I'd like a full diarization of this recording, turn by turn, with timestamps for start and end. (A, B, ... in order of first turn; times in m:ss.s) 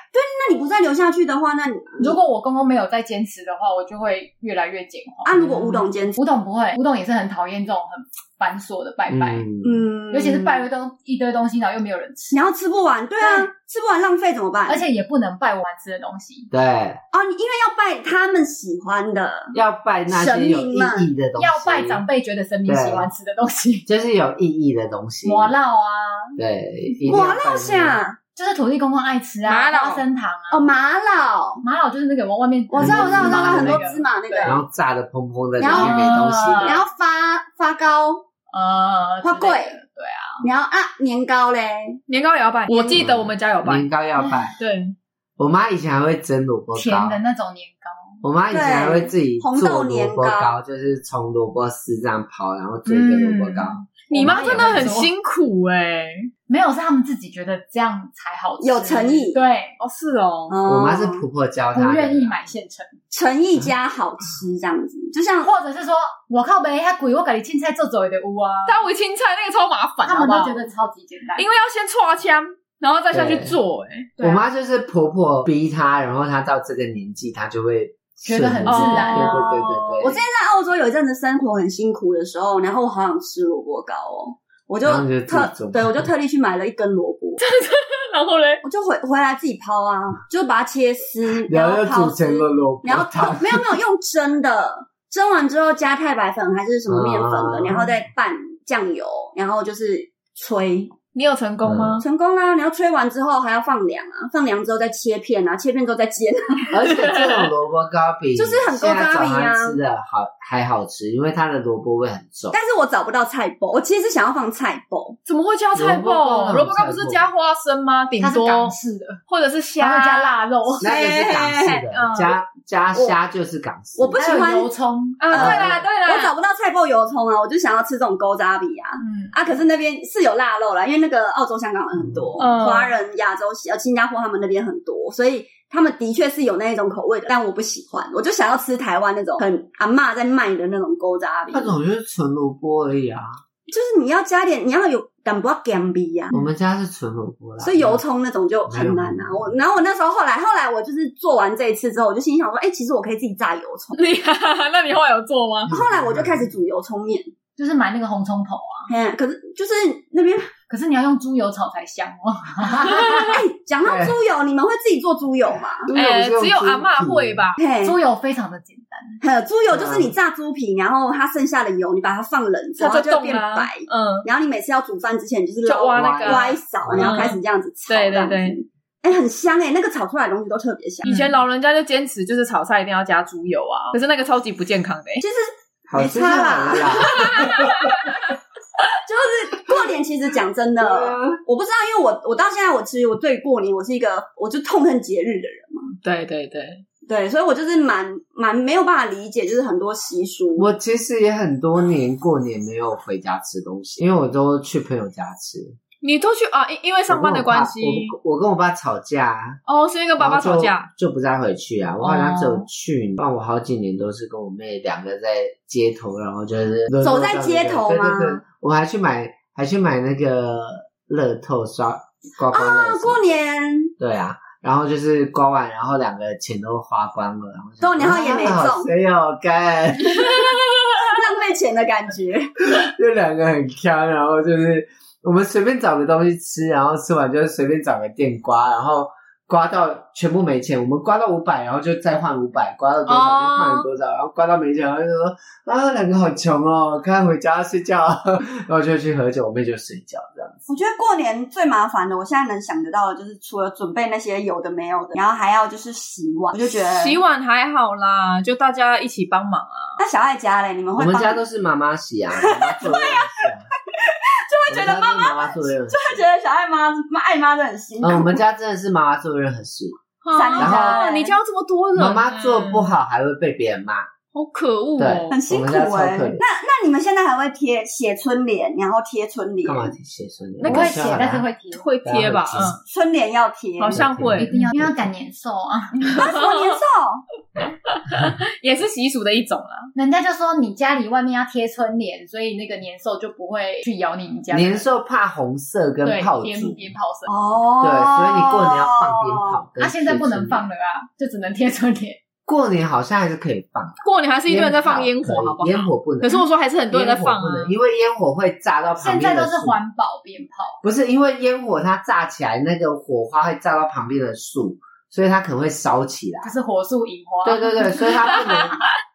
0:00.1-0:02.2 A
0:02.0-0:09.4 B
0:05.2-0:06.2 A
0:09.1-0:09.8 C
0:09.6-0:10.7 A
0:10.1-0:12.5 B
0:12.3-0:14.8 A
0:13.2-0:13.5 B
0:14.7-0:16.5 B
0:16.5-0:17.0 C
0:17.1-0:19.6 A
0:19.5-0:22.0 C
0:20.1-0:21.1 A
0:21.4-0:23.9 B
0:22.7-0:23.1 C
0:23.9-0:25.5 C
0:25.2-0:26.4 B
0:26.4-0:28.0 C
0:27.1-0:28.2 A
0:28.3-0:30.7 B
0:29.4-0:30.0 D
0:30.5-0:31.6 A
0:31.6-0:34.4 B
0:32.7-0:34.6 A
0:32.8-0:33.8 C
0:34.4-0:36.8 C
0:35.6-0:36.8 B
0:35.8-0:38.2 A
0:38.5-0:40.5 B
0:39.2-0:39.8 A
0:40.4-0:42.0 A
0:42.1-0:43.8 D
0:42.7-0:43.0 B
0:42.9-0:44.5 C
0:44.6-0:44.9 D
0:45.4-0:47.2 C
0:46.7-0:48.2 B
0:48.2-0:54.9 C
0:48.5-0:50.5 A
0:52.9-0:55.1 B
0:54.1-0:56.3 D
0:56.5-0:59.8 B
0:58.6-0:59.4 A
0:59.8-1:00.6 D
1:00.5-1:01.2 A
1:00.6-1:02.3 C
1:01.7-1:03.0 B
1:03.1-1:05.5 A
1:05.4-1:08.8 B
1:08.6-1:10.6 D
1:10.0-1:11.5 B
1:11.4-1:14.4 D
1:13.1-1:13.6 C
1:14.2-1:20.2 C
1:18.2-1:19.4 B
1:18.6-1:20.1 D
1:20.0-1:27.4 A
1:24.8-1:26.1 C
1:27.4-1:28.6 D
1:28.6-1:41.0 A
1:31.4-1:33.7 C
1:36.9-1:37.9 C
1:41.1-1:42.0 D
1:41.6-1:42.0 C
1:42.0-1:46.9 A
1:46.7-1:52.6 C
1:46.9-1:47.5 D
1:48.4-1:49.8 A
1:52.5-1:55.2 A
1:55.2-1:58.7 D
1:55.7-1:57.3 C
1:58.2-1:59.2 B
1:59.3-2:00.4 D
1:59.8-2:00.9 B
2:00.8-2:01.9 A
2:00.8-2:04.4 C
2:01.3-2:02.4 D
2:04.0-2:04.7 A
2:04.1-2:05.3 B
2:05.2-2:06.3 D
2:05.3-2:21.7 A
2:05.3-2:05.8 C
2:09.0-2:09.3 B
2:11.9-2:12.3 C
2:12.4-2:12.9 D
2:21.5-2:23.4 C
2:23.7-2:26.3 A
2:26.3-2:28.0 C
2:27.6-2:34.0 A
2:28.7-2:29.6 C
2:34.0-2:35.7 D
2:35.6-2:36.5 C
2:35.7-2:37.3 A
2:37.6-2:38.9 B
2:38.9-2:40.5 A
2:40.7-2:43.4 B
2:43.0-2:45.9 A
2:43.8-2:44.2 C
2:45.9-2:47.4 C
2:45.9-2:47.6 D
2:47.6-2:48.0 A
2:47.8-2:49.2 B
2:49.2-3:01.1 A
2:49.7-2:50.1 C
2:52.8-2:54.3 D
2:55.6-2:58.6 D
2:56.0-2:57.3 C
3:01.0-3:05.2 D
3:01.1-3:01.3 B
3:05.2-3:07.9 A
3:05.9-3:07.9 C
3:07.0-3:07.7 D
3:09.0-3:15.9 A
3:10.8-3:11.4 C
3:16.0-3:16.8 D
3:17.1-3:20.7 A
3:20.6-3:25.8 C
3:26.0-3:28.1 D
3:27.1-3:29.6 C
3:29.7-3:30.9 D
3:30.2-3:43.3 C
3:32.0-3:32.7 D
3:37.0-3:38.4 A
3:42.5-3:43.9 A
3:44.0-3:50.5 C
3:47.8-3:48.9 A
3:50.9-3:52.7 A
3:52.7-4:10.6 C
4:03.1-4:03.9 D
4:10.7-4:17.2 A
4:16.7-4:20.0 D
4:20.0-4:21.4 A
4:21.0-4:23.7 C
4:22.3-4:28.4 A
4:24.7-4:26.2 C
4:28.0-4:30.0 C
4:30.2-4:32.9 D
4:30.3-4:31.3 A
4:30.6-4:31.0 C
4:31.9-4:34.1 C
4:34.3-4:35.4 D
4:35.0-4:36.4 C
4:35.3-4:39.9 A
4:39.6-4:41.4 C
4:40.6-4:41.0 D
4:40.6-4:41.8 B
4:41.7-4:42.8 D
4:42.0-4:42.8 C
4:42.8-4:44.0 A
4:43.8-4:44.7 D
4:43.9-4:45.0 C
4:44.4-4:46.0 B
4:46.0-4:46.8 D
4:46.1-4:47.2 A
4:47.9-4:49.9 D
4:49.9-4:54.8 B
4:54.5-4:56.9 C
4:56.0-4:57.3 B
4:57.3-4:59.6 A
4:57.8-5:00.6 C
4:59.8-5:02.2 B
5:02.4-5:09.8 C
5:04.0-5:07.8 D
5:09.0-5:10.8 B
5:10.8-5:16.5 C
5:16.4-5:18.6 B
5:17.4-5:18.8 C